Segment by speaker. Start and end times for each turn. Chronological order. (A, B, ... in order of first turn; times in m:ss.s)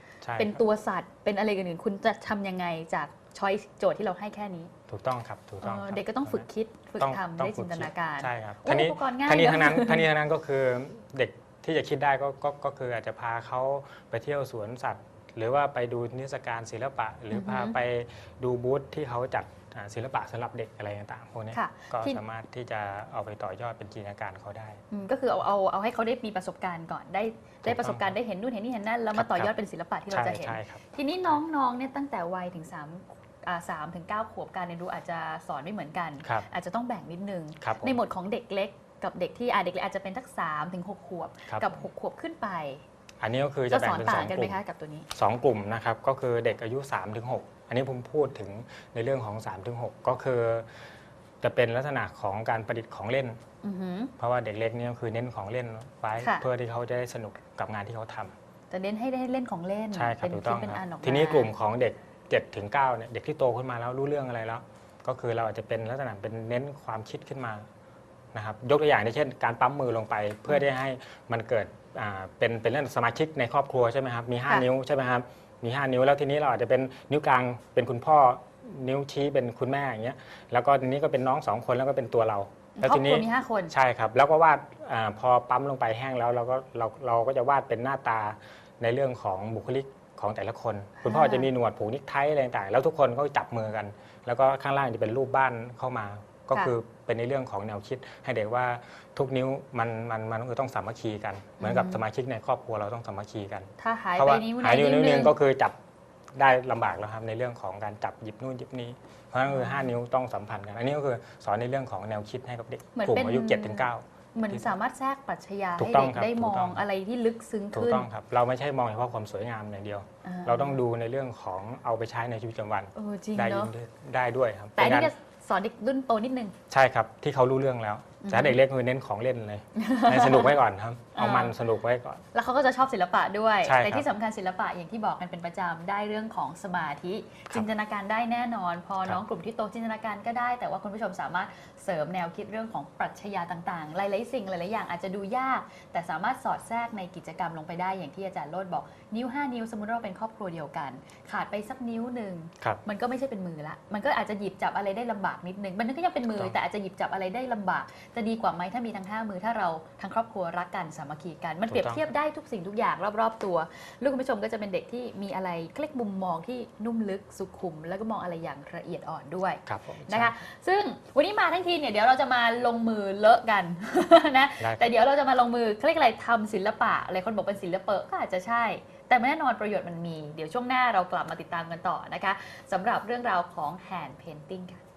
0:00.2-0:00.6 A
0:00.4-0:04.7 B
0:04.9-0:06.4 A
0:05.6-0:10.0 B
0:07.0-0:24.8 A
0:17.3-0:17.8 B
0:21.5-0:22.2 B
0:24.9-0:42.8 B
0:27.6-0:28.1 A
0:29.1-0:29.5 A
0:30.1-0:30.8 A
0:37.6-0:38.0 A
0:41.5-0:41.8 A
0:43.2-0:44.6 A
0:43.7-0:45.1 B
0:45.1-0:50.7 A
0:51.4-0:53.4 A
0:53.6-0:54.1 B
0:54.2-0:58.3 A
0:56.2-0:56.4 B
0:58.7-1:01.5 B
0:59.9-1:07.6 A
1:08.3-1:45.8 A
1:22.8-1:23.7 B
1:31.0-1:31.5 B
1:41.6-1:42.0 B
1:43.8-1:45.3 B
1:46.4-1:54.7 A
1:49.4-1:50.0 B
1:53.0-1:58.1 B
1:55.8-1:56.8 A
1:57.7-2:05.1 A
2:00.2-2:00.8 B
2:03.0-2:03.7 B
2:04.8-2:06.5 B
2:06.7-2:12.2 A
2:08.2-2:08.6 B
2:09.8-2:10.5 B
2:11.1-2:11.5 B
2:12.3-3:04.8 B
2:13.6-2:14.1 A
2:36.3-2:36.6 A
2:41.7-2:42.0 A
2:49.6-2:50.4 A
2:54.6-2:54.9 A